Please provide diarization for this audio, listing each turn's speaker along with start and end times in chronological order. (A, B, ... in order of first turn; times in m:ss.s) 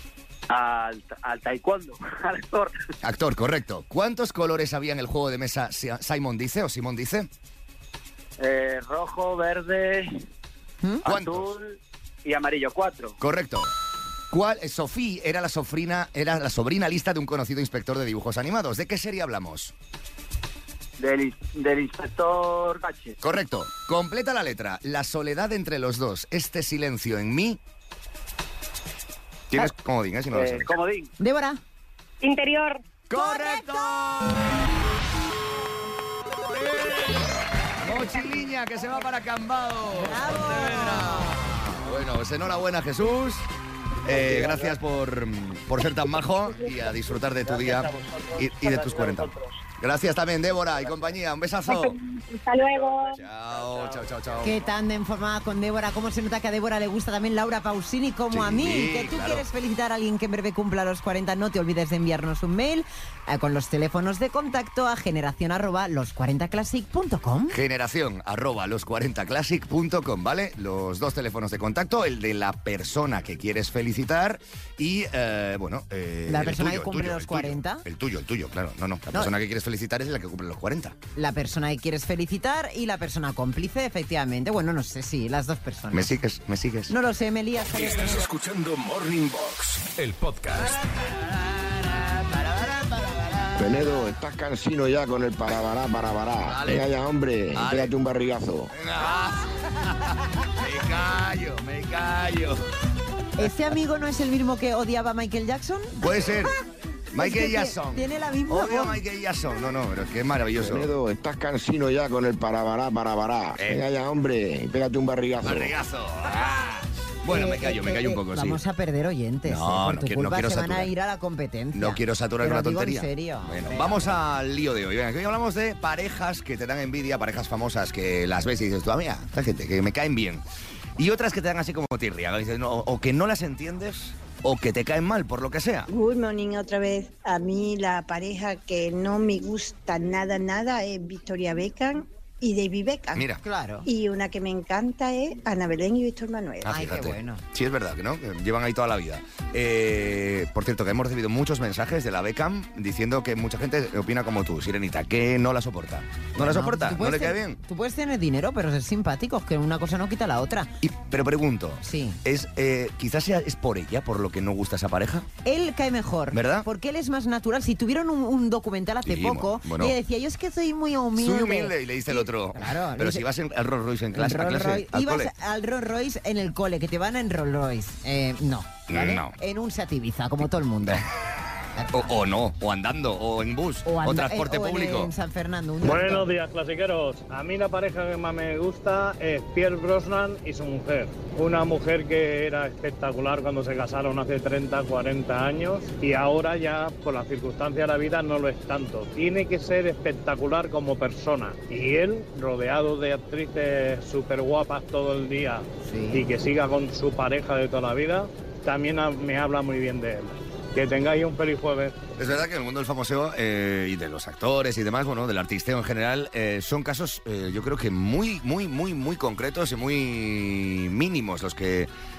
0:00.5-0:02.9 A
0:03.0-0:07.3 B
0:08.4-0:10.2 A
0:11.0-0:11.5 B
0:11.0-0:13.2 A
0:13.2-0:13.7 B
0:14.3-0:19.7 B
0:21.0-0:23.2 A
0:23.2-0:27.6 B
0:29.5-0:30.7 B
0:30.3-0:31.1 A
0:31.2-0:31.6 C
0:32.2-0:32.8 D
0:33.1-0:34.4 B
0:33.2-0:33.7 C
0:36.8-0:37.3 B
0:37.8-0:43.5 B
0:40.0-0:41.2 C
0:44.0-0:51.9 B
0:44.1-0:44.8 A
0:47.3-0:49.6 A
0:50.6-0:51.2 A
0:51.7-0:53.2 D
0:52.6-0:54.7 A
0:53.2-0:54.6 B
0:54.4-1:07.6 C
0:58.3-0:59.4 B
1:07.5-1:21.0 B
1:16.3-1:17.8 C
1:21.2-1:26.1 C
1:25.9-1:26.9 B
1:26.9-1:28.3 C
1:27.7-1:30.8 E
1:31.0-1:33.9 B
1:33.6-1:38.7 F
1:36.5-1:36.9 B
1:37.5-1:37.9 B
1:38.7-1:42.6 B
1:43.4-1:46.4 C
1:46.0-1:46.5 B
1:47.1-1:50.9 B
1:47.2-1:49.0 C
1:50.6-1:55.8 F
1:53.6-1:53.8 B
1:55.4-1:58.6 B
1:57.3-2:04.2 C
1:59.4-2:00.9 B
2:01.7-2:10.4 B
2:11.0-2:15.9 B
2:15.9-2:23.3 G
2:23.2-2:23.4 B
2:23.4-2:23.9 C
2:23.8-2:26.8 G
2:26.6-2:37.6 B
2:26.7-2:27.4 C
2:36.4-2:40.7 C
2:40.8-2:45.3 B
2:41.8-2:42.2 C
2:45.4-2:53.2 C
2:46.3-2:46.7 B
2:49.1-2:50.0 B
2:51.2-2:55.3 B
2:54.1-3:01.0 C
2:58.9-2:59.4 B
3:01.8-3:02.1 C
3:01.9-3:05.1 B
3:03.8-3:06.3 C
3:05.8-3:32.0 H
3:25.8-3:26.3 C
3:32.2-3:41.9 B